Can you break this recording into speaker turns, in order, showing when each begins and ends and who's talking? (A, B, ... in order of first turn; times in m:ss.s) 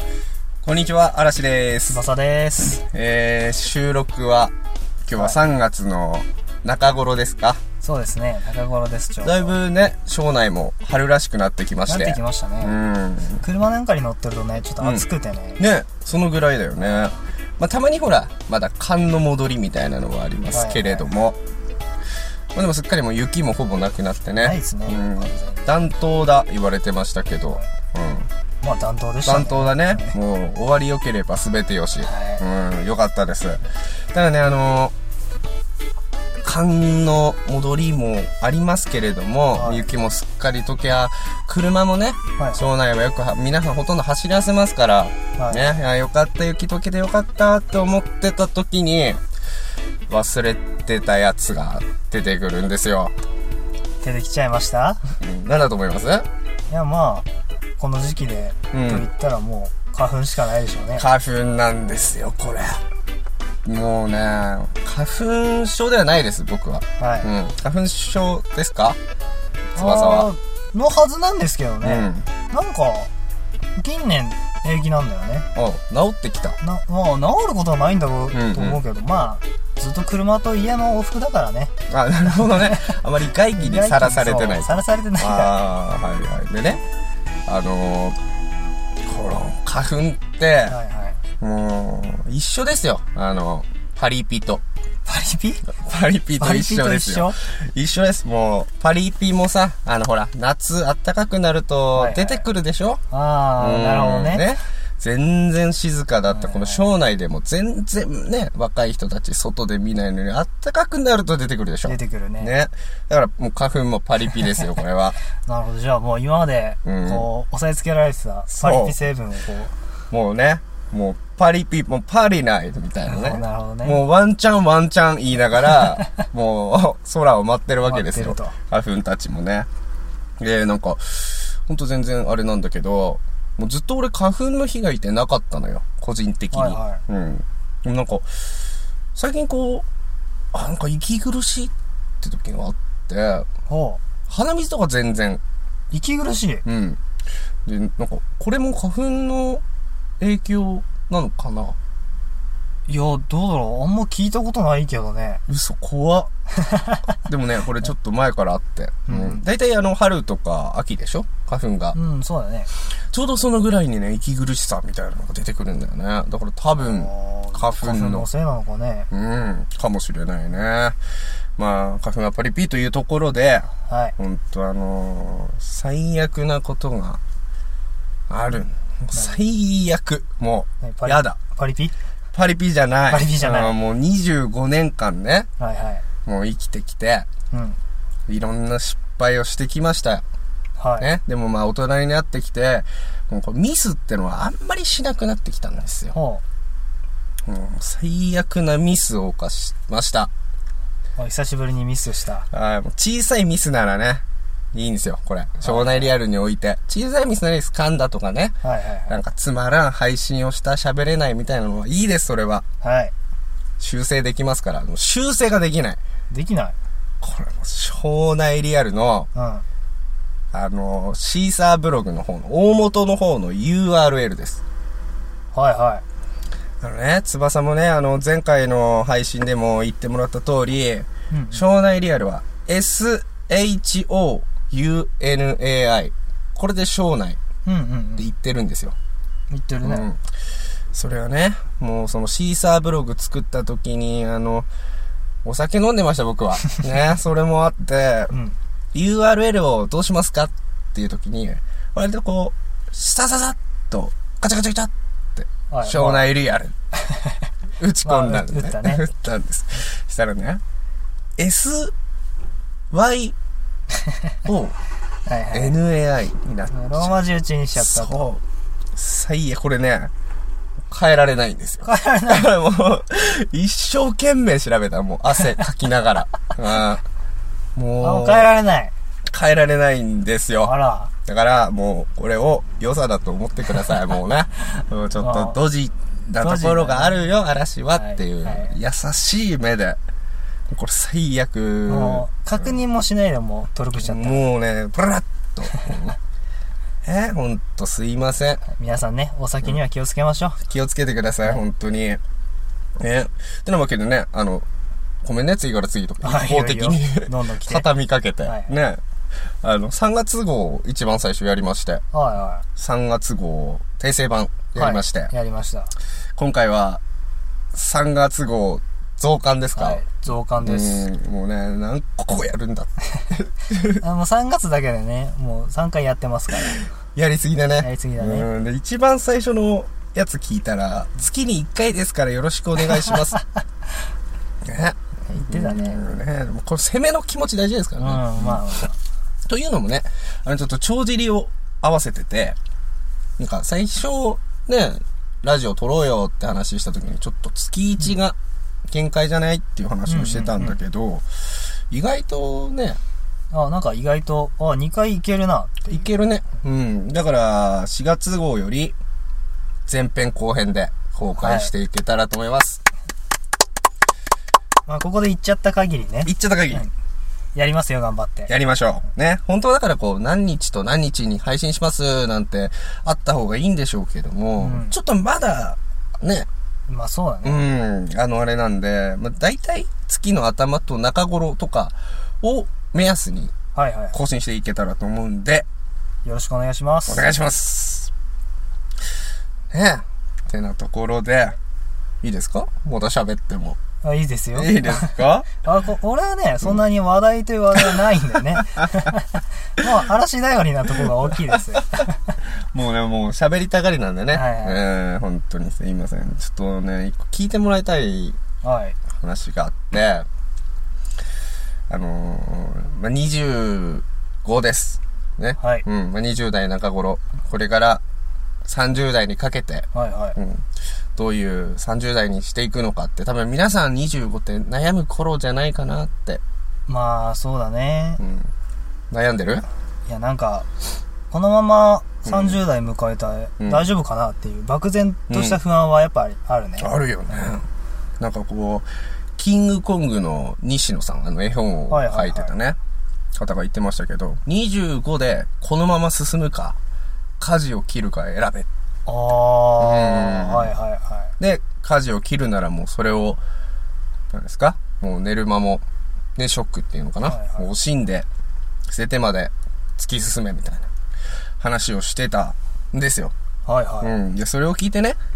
0:00.6-0:02.0 A
0:01.9-0:02.8 B
0:02.8-0:04.5 A
0:05.0-0:07.6 A
0:05.2-0:05.4 B
0:07.8-0:09.6 B
0:09.2-0:13.4 A
0:11.9-0:12.8 B
0:13.4-0:15.6 B
0:14.8-0:15.1 A
0:15.6-0:21.4 A
0:20.5-0:21.1 B
0:22.5-0:28.3 A
0:24.4-0:25.7 B
0:28.6-0:30.2 B
0:29.2-0:34.9 A
0:32.0-0:32.4 B
0:36.4-0:49.2 A
0:39.6-0:39.9 B
0:42.4-0:42.6 B
0:45.4-0:45.8 B
0:50.1-0:53.1 A
0:54.0-0:55.1 B
0:55.2-0:56.3 A
0:56.7-0:57.3 B
0:57.8-1:01.1 B
0:58.7-0:59.1 A
1:01.0-1:02.8 A
1:03.6-1:09.0 A
1:07.0-1:07.3 B
1:09.8-1:13.1 B
1:09.8-1:10.3 A
1:11.8-1:12.3 A
1:13.8-1:15.5 B
1:15.6-1:16.6 A
1:16.6-1:21.7 B
1:18.3-1:18.8 A
1:21.9-1:26.8 A
1:22.3-1:23.0 B
1:23.6-1:25.6 B
1:27.5-1:28.2 A
1:29.0-1:30.8 A
1:30.7-1:31.2 B
1:31.4-1:34.6 A
1:35.1-1:35.6 B
1:35.7-1:43.0 A
1:36.4-1:37.4 B
1:42.0-1:42.4 B
1:43.1-1:44.5 B
1:43.6-1:55.2 A
1:46.3-1:46.9 B
1:51.8-1:52.5 B
1:55.4-1:59.7 B
1:56.8-1:57.3 A
1:58.5-1:59.0 A
2:00.1-2:09.7 A
2:03.1-2:04.0 B
2:07.8-2:08.6 B
2:10.4-2:18.4 A
2:16.5-2:17.0 B
2:19.2-2:19.9 A
2:20.5-2:23.5 A
2:23.7-2:24.0 B
2:24.3-2:25.4 A
2:25.9-2:26.6 B
2:26.6-2:27.0 A
2:27.7-2:29.6 A
2:30.2-2:31.8 A
2:32.9-2:35.4 B
2:35.5-2:36.3 A
2:36.5-2:37.1 B
2:37.3-2:42.0 A
2:39.1-2:39.4 B
2:41.9-2:42.7 B
2:42.9-2:48.3 A
2:46.8-2:49.1 B
2:49.1-2:51.0 A
2:51.6-2:57.2 A
2:53.8-2:54.2 B
2:58.3-3:01.4 A
3:00.8-3:02.0 B
3:02.3-3:05.5 A
3:03.1-3:03.7 B
3:05.6-3:06.0 B
3:06.3-3:07.3 A
3:07.5-3:07.8 B
3:08.3-3:10.2 A
3:10.8-3:11.1 B
3:11.0-3:16.2 A
3:16.1-3:16.4 B
3:17.5-3:20.3 A
3:21.2-3:22.5 B
3:22.5-3:28.6 A
3:25.6-3:26.1 B
3:28.6-3:29.1 B
3:29.1-3:32.6 A
3:32.8-3:33.1 B
3:33.8-3:36.0 A
3:36.3-3:36.8 B
3:37.2-3:39.3 A
3:39.3-3:39.6 B
3:40.5-3:44.6 A
3:45.5-3:46.0 B
3:46.8-3:57.4 A
3:51.3-3:51.6 B
3:57.6-3:58.3 B
3:58.2-3:59.0 A
3:59.5-4:00.1 B
3:59.8-4:00.2 A
4:00.9-4:04.7 A
4:05.4-4:08.3 A
4:08.3-4:08.6 B
4:08.9-4:16.8 A
4:15.7-4:16.3 B
4:17.0-4:17.4 B
4:17.8-4:20.6 A
4:18.0-4:19.0 B
4:21.4-4:21.9 A
4:22.9-4:23.4 A
4:24.5-4:24.8 A
4:25.3-4:25.8 B
4:25.5-4:27.2 A
4:26.7-4:28.3 B
4:27.8-4:28.4 A
4:29.0-4:30.1 A
4:30.9-4:37.0 A
4:31.8-4:32.5 B
4:37.8-4:38.5 A
4:38.0-4:38.9 B
4:39.3-4:40.7 A
4:40.6-4:41.1 B
4:41.2-4:50.0 A
4:45.2-4:45.6 B
4:46.4-4:47.2 B
4:47.9-4:48.7 B
4:50.7-4:52.7 A
4:51.9-4:54.5 B
4:54.0-4:56.2 A
4:57.0-4:58.6 A
4:58.7-5:00.6 B
5:00.6-5:02.2 A
5:03.0-5:04.7 A
5:05.2-5:09.0 A
5:06.2-5:07.9 B
5:08.5-5:08.7 B
5:09.6-5:12.0 A
5:12.1-5:12.6 B
5:12.8-5:15.3 A
5:14.8-5:15.9 B
5:16.4-5:17.0 A
5:17.7-5:20.0 A
5:19.7-5:21.1 B
5:20.6-5:24.0 A
5:24.0-5:26.9 B
5:27.2-5:33.4 A
5:27.8-5:28.5 B
5:34.6-5:38.6 A
5:35.4-5:36.0 B
5:38.0-5:39.0 B
5:39.5-5:42.6 A
5:43.4-5:48.4 A
5:48.9-5:53.0 A
5:50.1-5:50.8 B
5:53.5-5:56.0 B
5:55.9-5:59.0 A
5:59.9-6:02.8 A
6:01.4-6:01.7 B
6:04.9-6:06.9 B
6:06.2-6:06.8 A
6:07.6-6:08.5 B
6:08.5-6:16.5 A
6:14.6-6:15.0 B
6:16.9-6:17.7 B
6:17.4-6:23.6 A
6:23.8-6:24.2 B
6:24.1-6:25.7 A
6:26.2-6:27.3 B
6:27.1-6:28.1 A
6:29.7-6:31.6 A
6:32.2-6:33.8 A
6:34.0-6:42.4 B
6:34.5-6:35.5 A
6:42.7-6:48.4 A
6:44.3-6:44.8 B
6:48.6-6:49.0 B
6:49.2-6:50.3 A
6:51.9-6:58.0 A
6:55.6-6:55.8 B
6:58.6-7:06.4 A
6:59.9-7:00.4 B
7:06.9-7:08.2 B
7:08.2-7:08.5 A
7:09.1-7:09.6 A
7:10.1-7:10.7 B
7:11.3-7:16.9 B
7:12.2-7:12.6 A
7:13.6-7:13.9 A
7:15.3-7:15.6 A
7:16.8-7:17.7 A
7:18.2-7:22.8 A
7:21.9-7:22.5 B
7:23.4-7:26.8 A
7:27.4-7:28.7 A
7:29.1-7:31.3 B
7:29.8-7:30.7 A
7:31.4-7:33.4 A
7:34.3-7:35.8 A
7:36.4-7:38.3 A
7:37.2-7:37.7 B
7:38.9-7:40.9 A
7:41.6-7:43.3 A
7:43.7-7:44.2 B
7:44.0-7:45.2 A